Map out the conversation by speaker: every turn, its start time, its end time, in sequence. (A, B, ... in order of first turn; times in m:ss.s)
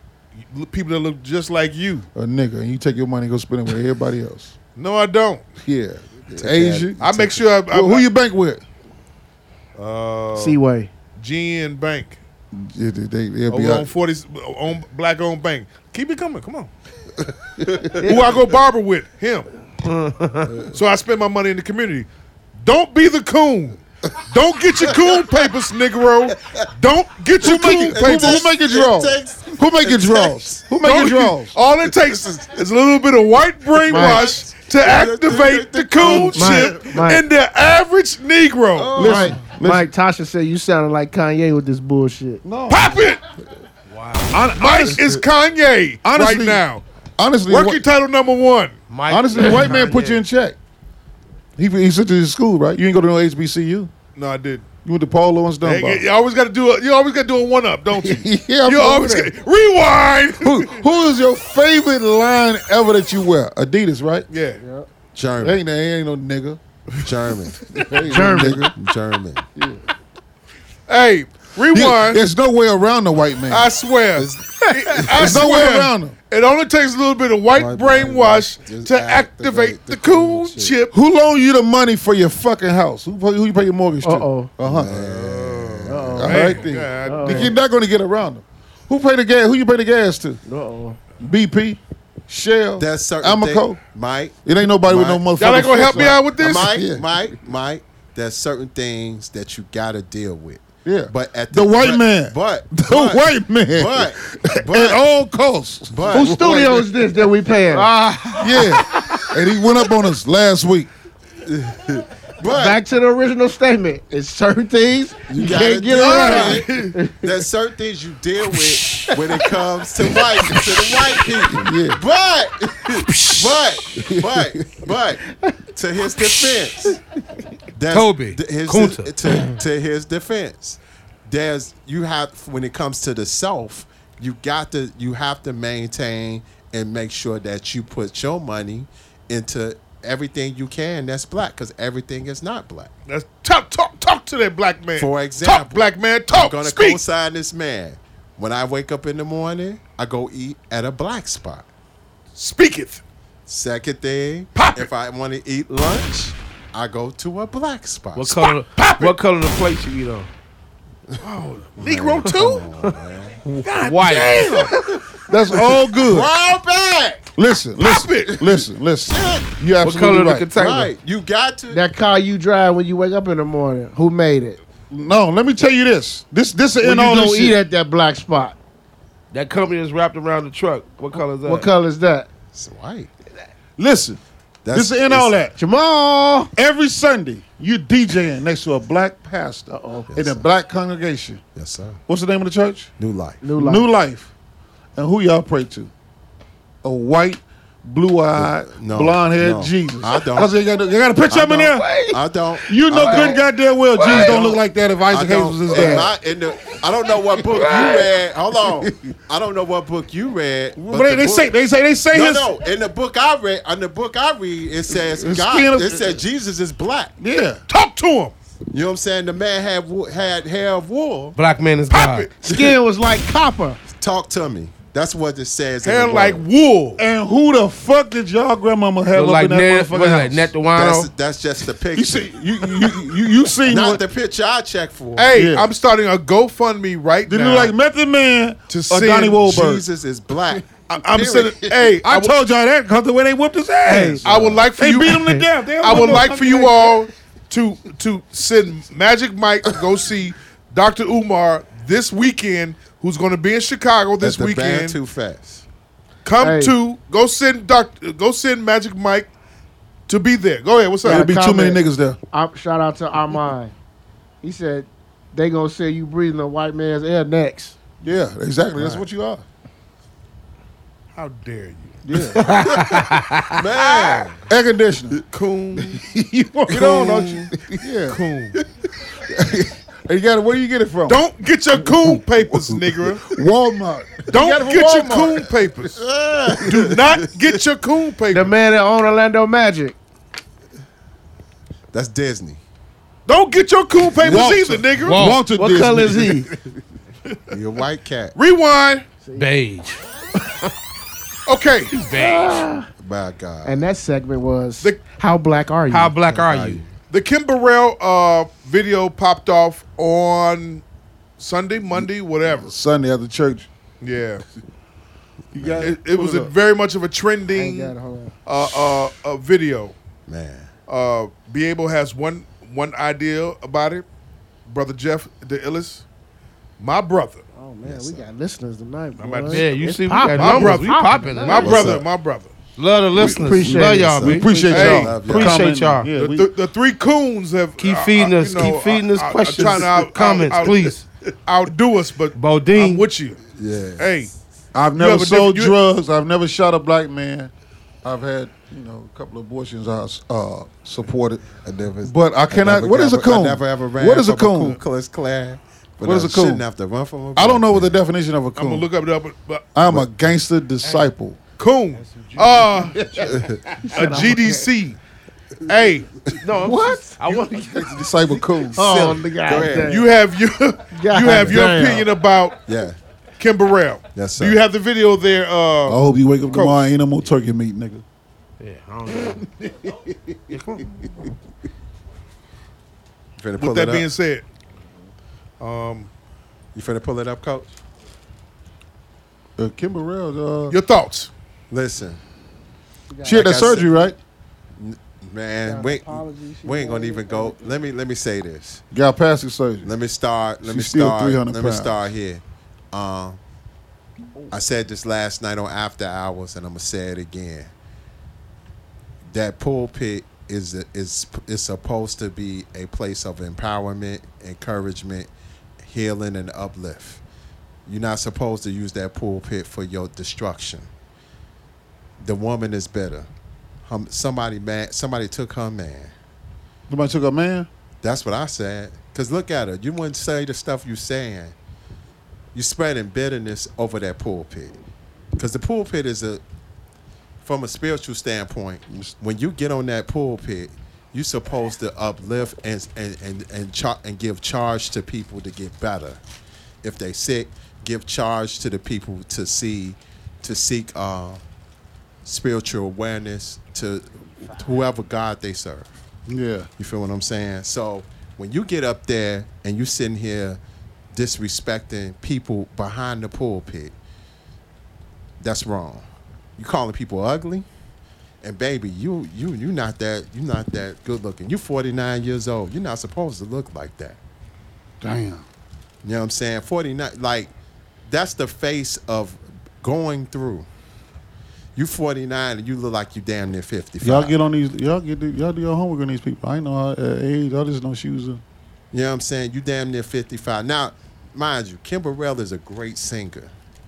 0:00.4-0:02.1 A
0:02.1-0:04.6 B
0:04.8-0:05.5 A
0:05.6-0:08.6 B
0:06.4-0:06.9 C
0:07.0-0:08.0 A
0:09.7-0:10.6 A
0:10.3-0:10.9 D
0:11.2-0:12.2 A
0:12.5-0:13.9 B
0:13.5-0:16.7 A
0:18.0-0:19.5 A
0:19.8-0:20.6 E
0:20.7-0:28.5 A
0:27.4-0:31.6 B
0:27.4-0:30.7 C
0:30.8-0:39.2 A
0:33.8-0:36.9 C
0:33.9-0:34.3 D
0:36.0-0:37.2 D
0:38.7-0:39.4 C
0:38.9-0:39.9 B
0:39.1-0:42.4 D
0:42.4-0:43.0 B
0:42.7-0:43.2 A
0:43.9-0:44.4 E
0:44.3-0:45.2 B
0:44.5-0:46.8 A
0:46.0-0:46.6 B
0:47.2-0:47.8 B
0:47.5-0:48.8 A
0:48.9-0:50.2 E
0:49.1-0:50.6 B
0:51.6-0:53.9 B
0:54.2-0:54.6 A
0:54.8-0:56.0 B
0:55.6-1:00.8 A
0:57.9-0:59.3 B
1:00.4-1:04.3 B
1:04.3-1:04.6 A
1:04.6-1:04.9 D
1:05.1-1:05.6 C
1:05.4-1:06.6 B
1:07.0-1:07.6 C
1:07.6-1:08.7 B
1:08.1-1:08.7 D
1:08.3-1:09.4 C
1:09.6-1:09.8 B
1:10.9-1:12.2 A
1:11.7-1:13.7 B
1:13.5-1:20.9 A
1:14.2-1:15.4 C
1:15.1-1:16.2 B
1:17.5-1:20.8 C
1:20.9-1:25.0 B
1:24.0-1:24.5 D
1:24.6-1:26.2 C
1:24.8-1:27.5 A
1:25.8-1:27.5 D
1:26.0-1:30.4 B
1:30.4-1:31.0 D
1:31.2-1:33.8 B
1:32.8-1:45.0 C
1:34.4-1:37.2 B
1:35.3-1:36.8 A
1:40.8-1:46.8 B
1:45.9-1:47.0 C
1:46.1-1:47.9 D
1:48.3-1:50.9 B
1:51.4-1:52.8 C
1:52.4-1:57.2 D
1:55.3-2:07.0 C
1:55.9-1:57.0 A
2:01.5-2:02.0 B
2:03.9-2:04.8 B
2:07.7-2:22.9 C
2:07.9-2:09.3 E
2:23.1-2:27.0 A
2:25.0-2:31.7 C
2:32.3-2:33.0 A
2:33.5-2:38.5 C
2:34.5-2:34.9 A
2:38.1-2:40.3 E
2:38.8-2:39.1 A
2:41.2-2:42.7 A
2:41.8-2:43.4 C
2:43.6-2:44.8 E
2:43.6-2:44.9 A
2:45.3-2:46.3 B
2:46.0-2:47.2 C
2:47.4-2:50.5 B
2:47.8-2:48.6 A
2:49.1-2:49.5 C
2:49.8-2:50.9 E
2:50.5-2:51.8 C
2:51.7-2:54.6 D
2:54.9-2:57.6 B
2:56.8-2:58.6 D
2:59.3-3:01.7 E
3:01.1-3:02.3 D
3:02.5-3:03.1 C
3:03.8-3:04.2 B
3:04.6-3:05.3 C
3:04.7-3:05.6 B
3:05.6-3:06.5 D
3:06.6-3:11.4 B
3:09.7-3:10.1 D
3:10.1-3:10.4 C
3:11.6-3:12.0 C
3:12.1-3:12.9 B
3:13.0-3:13.4 C
3:13.4-3:13.9 D
3:13.6-3:14.3 B
3:15.0-3:15.9 B
3:16.8-3:21.9 B
3:18.3-3:20.5 C
3:21.3-3:23.4 C
3:21.8-3:22.1 E
3:22.6-3:26.1 B
3:23.0-3:23.3 E
3:24.0-3:24.4 E
3:24.0-3:31.5 C
3:27.6-3:28.0 E
3:28.6-3:29.1 B
3:30.8-3:32.6 B
3:32.1-3:37.1 C
3:34.9-3:36.2 B
3:37.2-3:37.6 B
3:37.7-3:38.3 A
3:38.7-3:41.4 C
3:41.4-3:42.3 E
3:41.9-3:42.3 A
3:42.4-3:43.8 D
3:42.5-3:42.7 C
3:44.0-3:46.4 C
3:45.8-3:47.0 A
3:47.0-3:50.5 B
3:49.1-3:51.1 E
3:50.7-3:52.9 C
3:51.9-3:54.0 B
3:53.6-3:55.4 C
3:55.2-3:57.7 A
3:55.3-3:55.7 B
3:57.3-3:59.8 B
3:58.7-3:59.4 A
3:59.4-4:01.8 C
4:00.9-4:02.3 A
4:01.9-4:07.0 B
4:03.9-4:04.2 D
4:03.9-4:15.0 A
4:04.2-4:04.6 C
4:14.2-4:15.6 C
4:16.2-4:19.3 A
4:16.4-4:16.7 D
4:20.1-4:21.2 A
4:21.0-4:22.2 B
4:21.0-4:23.7 D
4:24.4-4:27.8 D
4:28.0-4:29.4 B
4:31.1-4:32.0 A
4:32.0-4:32.4 B
4:32.4-4:33.5 E
4:33.5-4:34.4 C
4:33.8-4:34.3 A
4:34.4-4:35.2 B
4:35.3-4:36.0 A
4:35.8-4:38.2 B
4:36.7-4:37.5 A
4:36.7-4:37.4 C
4:38.1-4:38.6 A
4:39.2-4:41.2 B
4:41.1-4:43.2 A
4:41.8-4:45.5 B
4:44.3-4:46.0 A
4:46.0-4:47.6 C
4:46.4-4:46.8 B
4:46.6-4:48.5 A
4:48.3-4:50.0 D
4:51.9-4:52.6 C
4:53.3-4:55.4 A
4:54.2-4:56.8 B
4:55.5-4:56.5 D
4:57.5-4:58.4 C
4:58.4-4:59.0 A
4:59.2-4:59.5 D
4:59.3-5:00.0 E
5:01.4-5:02.0 A
5:01.9-5:02.7 E
5:02.1-5:02.9 D
5:03.0-5:03.8 C
5:03.6-5:06.2 D
5:05.9-5:06.8 E
5:06.3-5:06.9 C
5:07.1-5:10.8 A
5:11.4-5:12.7 A
5:11.9-5:13.7 B
5:14.0-5:14.4 A
5:15.5-5:16.5 B
5:15.6-5:15.9 C
5:15.8-5:17.9 A
5:17.5-5:18.3 D
5:18.4-5:20.0 A
5:20.3-5:20.7 C
5:20.9-5:24.0 A
5:24.6-5:26.0 A
5:26.8-5:27.4 A
5:27.5-5:31.9 D
5:27.8-5:28.3 C
5:29.2-5:29.7 A
5:29.5-5:32.0 E
5:30.3-5:32.5 A
5:31.6-5:32.1 C
5:32.8-5:36.1 E
5:33.2-5:35.1 D
5:33.2-5:36.5 B
5:34.0-5:35.7 C
5:34.6-5:35.2 A
5:36.1-5:43.4 A
5:37.8-5:41.0 E
5:42.4-5:43.1 E
5:43.6-5:44.2 C
5:44.0-5:44.3 A
5:44.7-5:47.5 B
5:45.0-5:45.7 A
5:48.0-5:51.4 B
5:51.6-5:57.9 C
5:52.0-5:54.8 B
5:56.0-5:56.6 B
5:57.3-5:58.9 B
5:58.6-5:59.7 A
5:59.7-6:01.4 B
6:01.6-6:03.1 A
6:01.9-6:03.3 E
6:03.0-6:03.3 D
6:03.3-6:03.6 C
6:03.9-6:04.6 D
6:03.9-6:05.0 A
6:05.7-6:06.2 A
6:06.4-6:08.1 E
6:06.5-6:09.2 B
6:08.7-6:10.1 D
6:08.8-6:10.0 C
6:09.8-6:12.6 A
6:10.9-6:12.1 D
6:12.6-6:13.0 C
6:13.4-6:16.9 A
6:14.1-6:14.6 C
6:15.8-6:18.0 B
6:18.6-6:19.5 E
6:20.5-6:20.9 E
6:23.4-6:24.1 C
6:23.6-6:24.4 A
6:25.6-6:26.1 A
6:26.7-6:27.7 C
6:29.6-6:30.8 B
6:30.7-6:31.3 A
6:31.7-6:32.2 C
6:33.1-6:33.9 D
6:33.2-6:34.2 B
6:33.2-6:33.9 C
6:34.8-6:38.8 C
6:35.6-6:37.8 D
6:38.9-6:39.9 B
6:39.8-6:43.4 C
6:40.6-6:42.1 B
6:44.5-6:47.7 C
6:49.3-6:55.3 C
6:55.8-6:57.2 C
6:57.8-7:00.9 C
7:02.2-7:03.3 C
7:03.8-7:06.1 C
7:06.9-7:07.7 B
7:08.0-7:11.5 C
7:12.5-7:14.8 C
7:15.4-7:16.4 C
7:17.4-7:26.2 C
7:26.8-7:31.4 C
7:32.2-7:35.9 C
7:36.3-7:36.7 B
7:36.8-7:40.6 C
7:41.1-7:43.9 C
7:45.4-7:47.7 C
7:48.4-7:54.2 C
7:55.0-7:55.4 B
7:56.0-7:57.5 C
7:58.0-8:00.7 C
8:01.7-8:04.3 C
8:04.0-8:08.4 B
8:08.9-8:13.5 C